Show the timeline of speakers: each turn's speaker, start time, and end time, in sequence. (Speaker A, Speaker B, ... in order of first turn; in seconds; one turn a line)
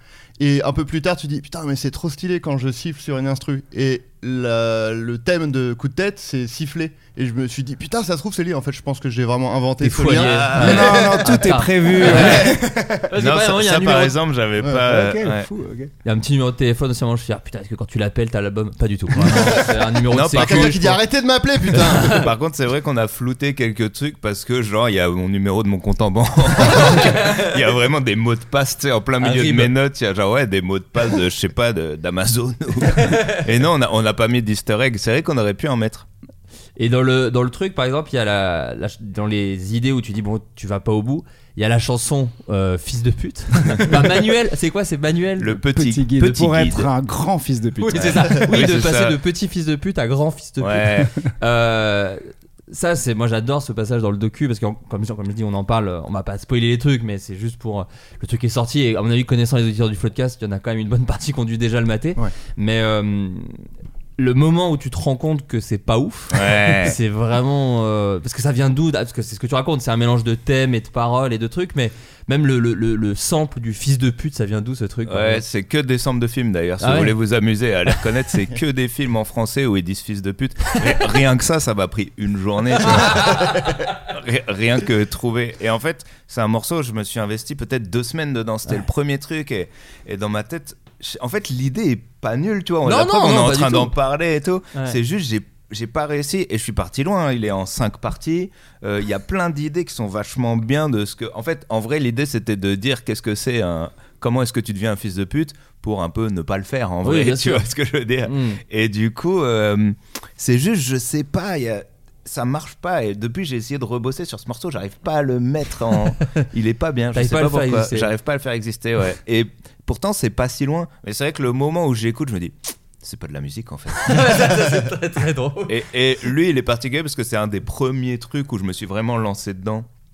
Speaker A: 0.4-11.2
Speaker B: 9.8-12.5
Speaker C: 10.2-11.0
Speaker D: 10.6-13.1
Speaker C: 12.0-12.5
Speaker B: 13.1-14.1
Speaker C: 13.2-15.5
Speaker D: 14.8-15.9
Speaker B: 16.0-20.8
Speaker A: 19.2-19.8
Speaker C: 20.1-21.0
Speaker A: 20.3-22.2
Speaker C: 21.7-36.1
Speaker B: 26.7-27.3
Speaker B: 29.2-29.7
Speaker B: 36.8-45.5
Speaker C: 43.7-43.9
Speaker C: 45.4-46.9
Speaker D: 45.8-48.4
Speaker B: 47.8-63.6
Speaker C: 48.0-49.2
Speaker C: 50.6-51.1
Speaker B: 64.2-75.4
Speaker C: 66.3-67.0
Speaker C: 75.1-124.6
Speaker B: 76.8-77.1
Speaker B: 92.8-93.9
Speaker B: 107.0-107.6
Speaker B: 108.2-108.6
Speaker B: 117.1-118.1
Speaker B: 124.0-125.7
Speaker C: 125.7-129.9